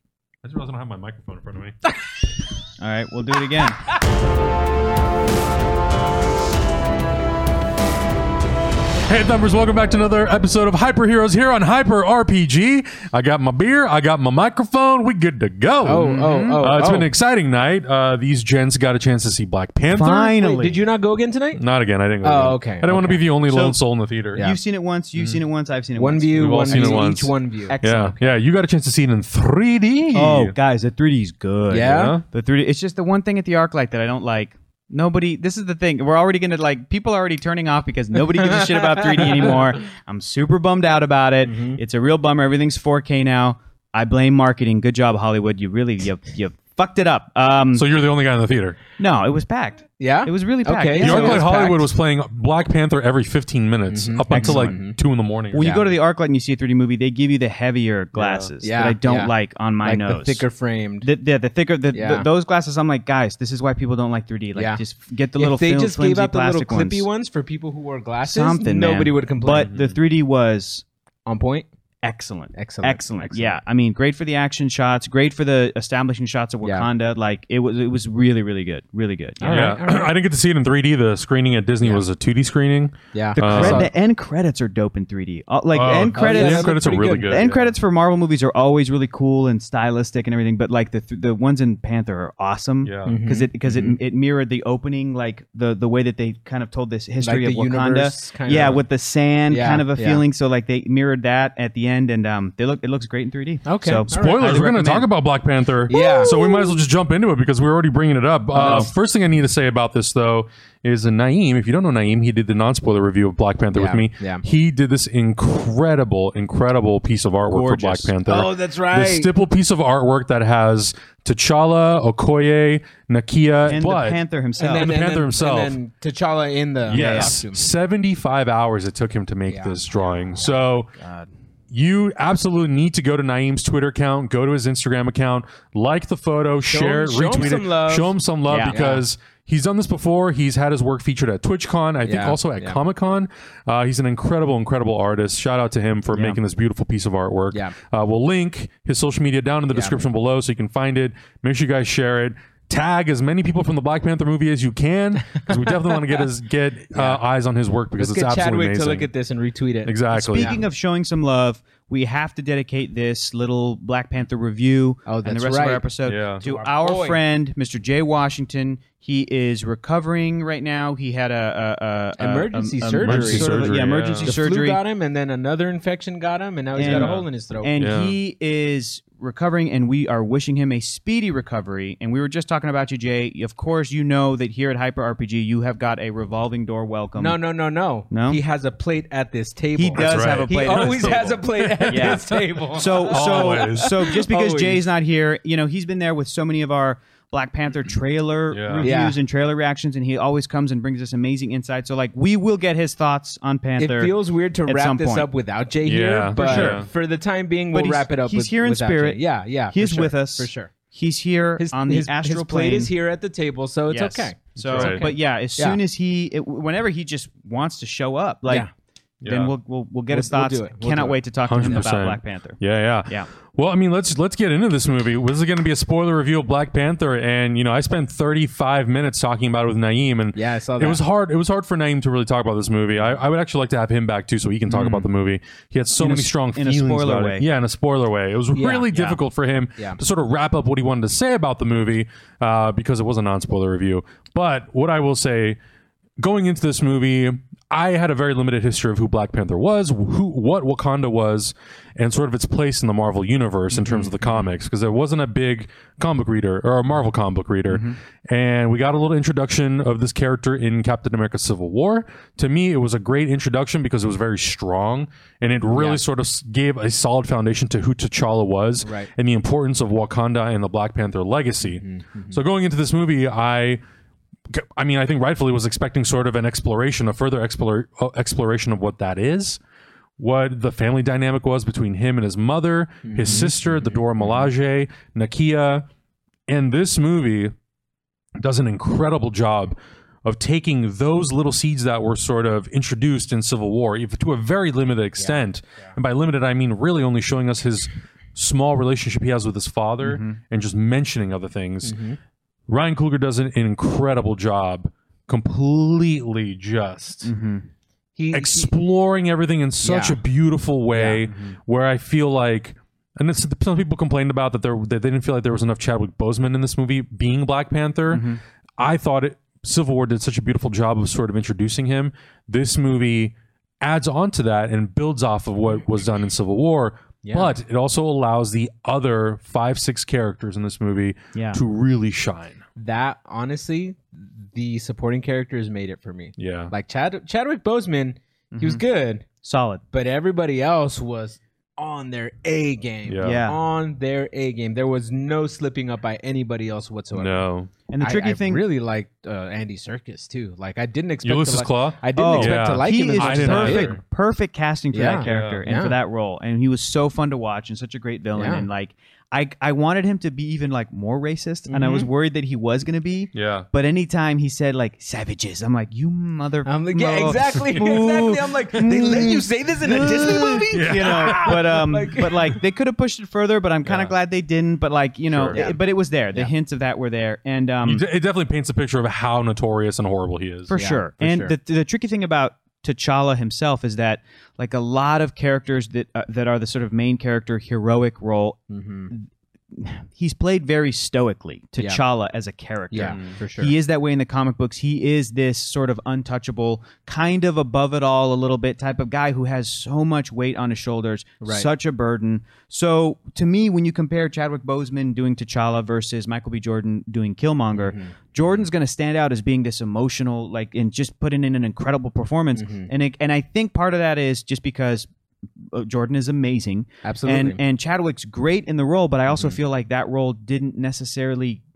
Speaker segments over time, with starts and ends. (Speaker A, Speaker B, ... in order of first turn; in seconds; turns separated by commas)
Speaker A: 0.4-1.8, Speaker B: 2.8-3.8, Speaker A: 9.1-20.3, Speaker C: 15.8-17.1, Speaker B: 16.1-16.6, Speaker B: 19.9-20.8, Speaker C: 20.4-21.6, Speaker A: 21.6-24.4, Speaker C: 22.2-23.2, Speaker B: 23.5-23.8, Speaker B: 24.4-27.1, Speaker C: 26.0-28.1, Speaker A: 26.4-30.5, Speaker B: 27.7-28.2, Speaker B: 30.1-47.9, Speaker C: 31.7-32.2, Speaker A: 31.9-32.2, Speaker C: 38.4-39.6, Speaker C: 41.4-41.8, Speaker A: 47.7-48.8, Speaker B: 49.0-51.7, Speaker C: 50.0-51.8, Speaker A: 51.0-55.6, Speaker C: 53.9-55.0, Speaker B: 54.3-54.8, Speaker B: 55.5-60.5, Speaker C: 55.5-55.9, Speaker A: 58.1-58.5, Speaker C: 58.6-61.1, Speaker B: 61.0-67.1, Speaker C: 61.9-62.3, Speaker C: 64.5-64.8, Speaker C: 65.4-69.7, Speaker B: 68.2-70.8, Speaker A: 69.6-70.0, Speaker C: 71.3-71.7, Speaker B: 72.0-79.8, Speaker C: 72.5-73.6, Speaker C: 76.6-76.9, Speaker C: 79.4-80.1, Speaker A: 79.5-83.9, Speaker C: 83.1-83.9, Speaker B: 83.4-105.1, Speaker A: 85.7-87.8, Speaker C: 86.1-87.3, Speaker A: 92.8-93.2, Speaker C: 93.0-94.0, Speaker C: 97.2-98.8, Speaker C: 99.5-100.2, Speaker C: 103.7-104.7, Speaker A: 104.1-125.8, Speaker C: 105.9-106.3, Speaker B: 106.0-106.6, Speaker C: 108.5-108.9, Speaker B: 108.6-108.9, Speaker C: 113.7-114.4, Speaker B: 117.5-118.1, Speaker C: 118.3-119.3, Speaker B: 123.7-124.9, Speaker C: 124.6-127.6, Speaker A: 126.9-130.9, Speaker B: 126.9-127.4, Speaker C: 129.5-129.8, Speaker B: 131.0-131.3, Speaker A: 131.7-159.1, Speaker C: 136.7-139.0, Speaker B: 138.5-138.8, Speaker C: 142.0-142.8, Speaker B: 146.1-146.4, Speaker C: 149.7-150.0, Speaker C: 155.3-156.2, Speaker C: 158.0-160.6, Speaker A: 159.8-160.6, Speaker B: 160.1-174.8, Speaker C: 165.1-165.9, Speaker A: 166.1-166.4, Speaker C: 166.4-167.2, Speaker C: 172.2-173.6, Speaker A: 173.0-174.4, Speaker C: 174.2-177.7, Speaker B: 176.8-187.4, Speaker A: 176.8-177.3, Speaker A: 177.8-178.2, Speaker C: 187.2-194.9, Speaker B: 188.1-188.4, Speaker B: 189.8-191.2, Speaker A: 189.9-194.1, Speaker B: 191.9-205.3, Speaker A: 198.5-198.9, Speaker C: 198.8-199.2, Speaker C: 203.8-210.7, Speaker A: 205.8-206.9, Speaker B: 206.4-206.9, Speaker B: 207.7-212.9, Speaker C: 211.6-215.8, Speaker B: 213.9-218.7, Speaker A: 214.7-215.0, Speaker A: 219.2-219.5, Speaker B: 219.3-223.3, Speaker C: 220.1-221.9, Speaker A: 221.5-245.6, Speaker C: 230.3-231.0, Speaker B: 234.7-235.0, Speaker B: 235.9-237.5, Speaker C: 238.5-239.2, Speaker A: 246.2-273.8, Speaker C: 253.8-254.4, Speaker B: 257.7-258.0, Speaker C: 265.7-266.0, Speaker C: 268.8-269.1, Speaker C: 271.6-272.4, Speaker A: 274.5-279.6, Speaker A: 280.2-285.9, Speaker C: 283.1-284.5, Speaker A: 286.5-287.5, Speaker A: 288.4-302.0, Speaker C: 295.2-295.9, Speaker B: 300.0-300.4, Speaker C: 301.8-302.2, Speaker A: 302.7-307.3, Speaker B: 307.2-307.7, Speaker C: 308.2-308.7, Speaker A: 308.3-332.6, Speaker C: 309.8-310.2, Speaker C: 310.9-311.2, Speaker B: 318.1-318.4, Speaker C: 327.2-327.6, Speaker B: 331.4-331.6, Speaker C: 332.8-339.2, Speaker A: 336.4-336.7, Speaker B: 338.5-338.8, Speaker B: 339.4-339.8, Speaker C: 339.9-347.4, Speaker A: 343.1-343.4, Speaker B: 343.2-343.6, Speaker A: 347.1-347.7, Speaker B: 347.9-348.6, Speaker C: 348.0-354.0, Speaker A: 351.2-354.0, Speaker B: 352.2-378.0, Speaker C: 354.9-355.9, Speaker A: 355.2-355.6, Speaker C: 358.4-358.7, Speaker C: 361.7-362.1, Speaker A: 363.4-363.7, Speaker C: 366.6-372.4, Speaker A: 370.7-372.3, Speaker A: 375.3-375.6, Speaker C: 375.5-375.8, Speaker A: 377.8-380.8, Speaker B: 380.7-415.1, Speaker C: 380.7-381.5, Speaker C: 388.7-389.1, Speaker C: 392.9-393.7, Speaker A: 393.0-393.4, Speaker C: 401.4-401.7, Speaker C: 407.8-408.1, Speaker C: 412.6-412.9, Speaker B: 415.6-421.6, Speaker C: 417.0-417.6, Speaker C: 419.3-419.6